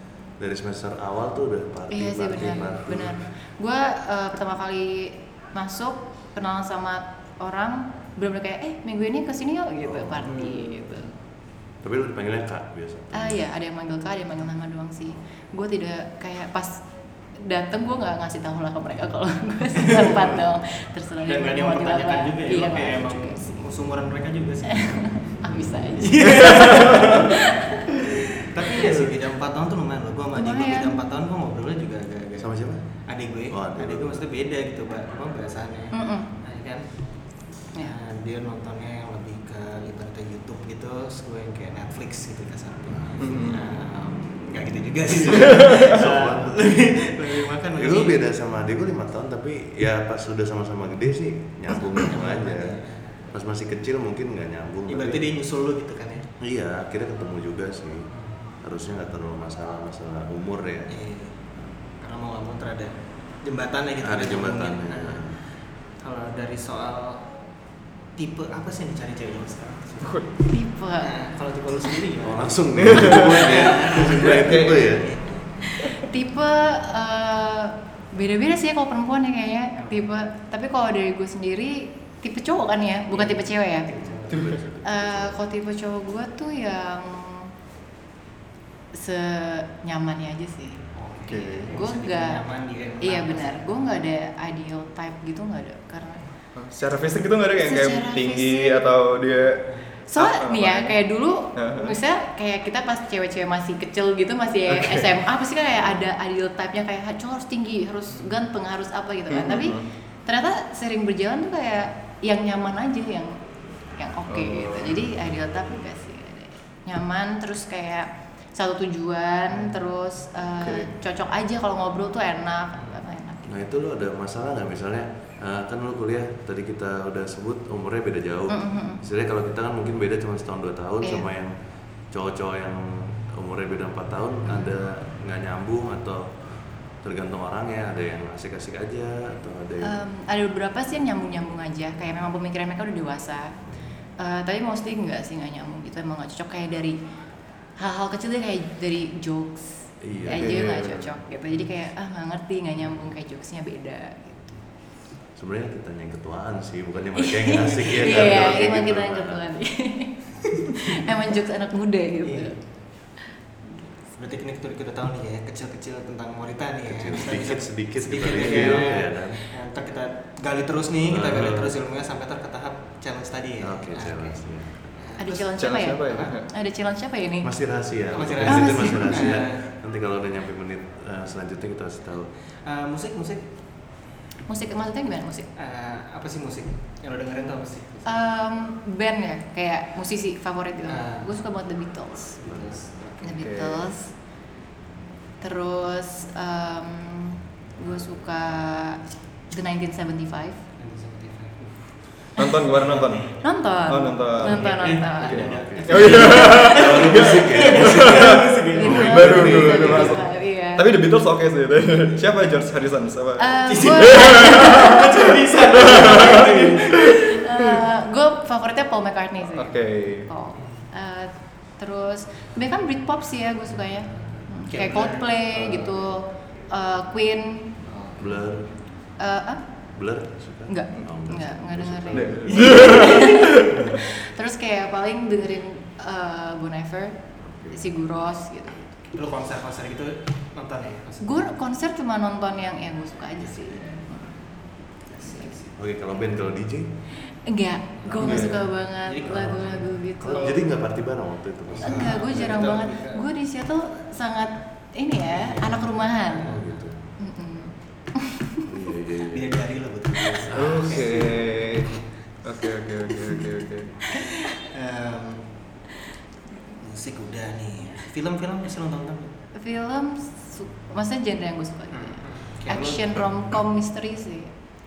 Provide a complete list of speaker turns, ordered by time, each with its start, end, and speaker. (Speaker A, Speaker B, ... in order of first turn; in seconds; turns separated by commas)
Speaker A: 0.4-3.2, Speaker B: 1.9-11.2, Speaker A: 9.8-10.3, Speaker A: 11.8-13.4, Speaker B: 13.1-16.8, Speaker B: 17.4-23.6, Speaker C: 19.8-20.2, Speaker C: 21.2-25.3, Speaker B: 24.7-27.7, Speaker C: 26.0-27.9, Speaker C: 28.5-32.5, Speaker B: 30.4-31.0, Speaker A: 32.4-32.8, Speaker C: 33.1-36.8, Speaker A: 33.5-34.2, Speaker B: 35.9-36.3, Speaker C: 37.4-48.2, Speaker A: 42.9-43.3, Speaker D: 43.2-43.6, Speaker A: 45.3-47.0, Speaker D: 45.5-45.9, Speaker A: 47.8-55.2, Speaker C: 52.0-53.3, Speaker C: 54.9-56.3, Speaker A: 56.4-58.1, Speaker C: 58.1-58.5, Speaker A: 58.6-61.0, Speaker C: 60.9-61.4, Speaker C: 62.0-65.4, Speaker A: 64.0-65.4, Speaker C: 66.0-67.3, Speaker C: 68.2-70.3, Speaker D: 70.0-70.3, Speaker B: 70.5-71.1, Speaker C: 71.0-75.4, Speaker A: 72.2-75.1, Speaker D: 72.8-73.5, Speaker D: 74.1-74.8, Speaker B: 75.7-84.0, Speaker C: 79.8-80.1, Speaker C: 83.1-84.5, Speaker A: 83.9-85.4, Speaker B: 84.8-87.5, Speaker B: 88.9-92.4, Speaker C: 91.0-93.6, Speaker D: 91.3-91.7, Speaker B: 93.0-96.2, Speaker D: 96.6-99.6, Speaker B: 97.6-98.8, Speaker B: 100.1-123.6, Speaker D: 100.2-101.0, Speaker D: 101.6-101.9, Speaker D: 104.8-105.1, Speaker D: 109.3-109.9, Speaker D: 114.3-115.0, Speaker D: 120.6-120.9, Speaker A: 123.5-131.5, Speaker B: 128.5-129.0, Speaker A: 132.1-136.3, Speaker A: 137.0-140.0, Speaker B: 139.8-143.5, Speaker B: 144.2-147.0, Speaker B: 147.8-154.5, Speaker A: 150.0-150.6, Speaker D: 150.3-151.1, Speaker A: 155.4-159.4, Speaker B: 157.4-160.2, Speaker C: 157.8-158.1, Speaker B: 160.8-162.6, Speaker C: 162.2-162.6, Speaker C: 164.1-174.4, Speaker A: 166.9-169.4, Speaker A: 171.1-171.8, Speaker A: 173.6-174.9, Speaker C: 175.0-175.5, Speaker B: 175.2-177.5, Speaker D: 175.6-176.5, Speaker C: 176.1-176.3, Speaker A: 177.4-182.3, Speaker C: 178.1-179.7, Speaker B: 178.5-179.2, Speaker C: 182.7-183.5, Speaker B: 184.5-185.5, Speaker C: 185.6-188.2, Speaker B: 188.1-192.4, Speaker C: 190.9-191.3, Speaker C: 192.4-193.4, Speaker A: 192.4-192.8, Speaker B: 193.2-194.1, Speaker D: 193.3-193.9, Speaker B: 195.4-200.6, Speaker C: 200.8-203.3, Speaker D: 202.4-217.4, Speaker B: 203.4-205.5, Speaker C: 204.4-209.3, Speaker A: 205.2-210.2, Speaker B: 208.7-210.9, Speaker B: 213.4-215.1, Speaker C: 213.7-217.5, Speaker B: 217.2-227.8, Speaker D: 219.5-220.3, Speaker C: 220.6-220.9, Speaker C: 224.7-226.1, Speaker C: 227.8-228.4, Speaker A: 228.2-228.7, Speaker B: 229.2-229.6, Speaker A: 229.9-233.2, Speaker B: 230.7-237.2, Speaker D: 232.1-234.0, Speaker C: 232.5-234.0, Speaker A: 237.4-237.8, Speaker B: 237.7-239.1, Speaker C: 239.1-241.4, Speaker B: 241.2-244.4, Speaker C: 243.5-243.9, Speaker C: 245.1-245.7, Speaker B: 245.2-245.5, Speaker A: 245.8-246.9, Speaker B: 247.4-250.6, Speaker A: 248.0-248.6, Speaker D: 248.2-248.6, Speaker C: 249.0-250.3, Speaker A: 249.2-249.6, Speaker A: 250.2-252.4, Speaker C: 251.7-253.2, Speaker B: 251.8-256.5, Speaker C: 255.2-256.7, Speaker A: 256.5-257.0, Speaker B: 257.2-258.6, Speaker A: 258.6-259.6, Speaker C: 259.3-262.0, Speaker A: 260.3-261.4, Speaker D: 260.5-264.0, Speaker C: 264.5-265.6, Speaker C: 266.8-269.4, Speaker B: 269.6-274.5, Speaker C: 271.9-273.2